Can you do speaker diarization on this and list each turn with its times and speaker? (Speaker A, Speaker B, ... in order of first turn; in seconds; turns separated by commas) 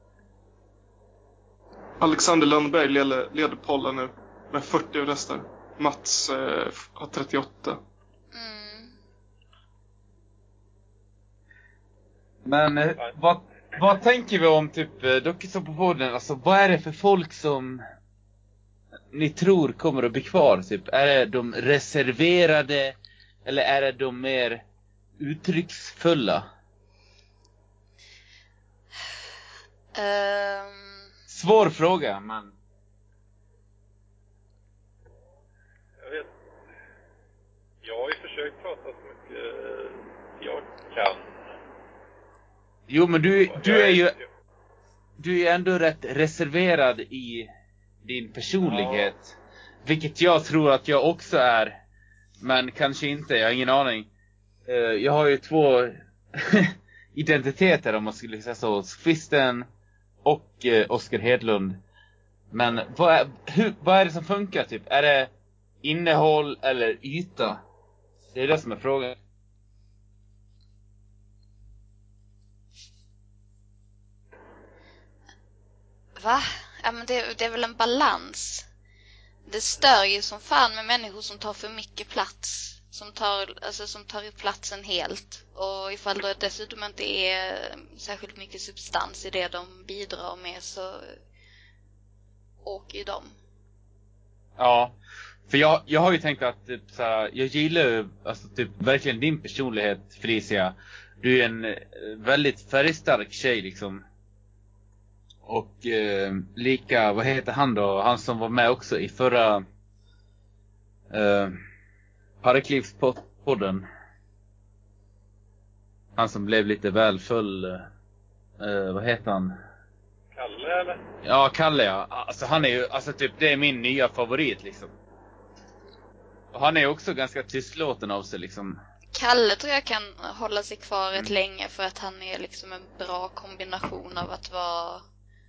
Speaker A: 2.0-7.8, Speaker B: 8.3-8.9, Speaker C: 12.4-17.8, Speaker C: 19.1-24.6, Speaker C: 25.2-26.5, Speaker B: 29.9-31.0, Speaker C: 31.3-32.5, Speaker D: 36.0-36.3, Speaker D: 37.8-41.3, Speaker C: 42.9-44.2, Speaker D: 43.5-44.2, Speaker C: 45.2-47.5, Speaker C: 48.0-51.8, Speaker D: 48.6-49.1, Speaker C: 52.4-54.1, Speaker C: 54.7-59.7, Speaker C: 60.2-61.8, Speaker C: 62.5-65.3, Speaker C: 65.8-67.6, Speaker C: 68.3-69.2, Speaker B: 76.2-78.7, Speaker B: 79.5-91.1, Speaker B: 92.6-93.3, Speaker C: 94.6-95.0, Speaker C: 95.5-104.0, Speaker C: 105.5-109.6, Speaker C: 111.1-111.6, Speaker C: 112.4-113.8, Speaker C: 116.2-117.8, Speaker C: 118.6-119.5, Speaker D: 120.3-121.0, Speaker C: 121.2-124.9, Speaker C: 126.5-128.8, Speaker B: 129.1-135.0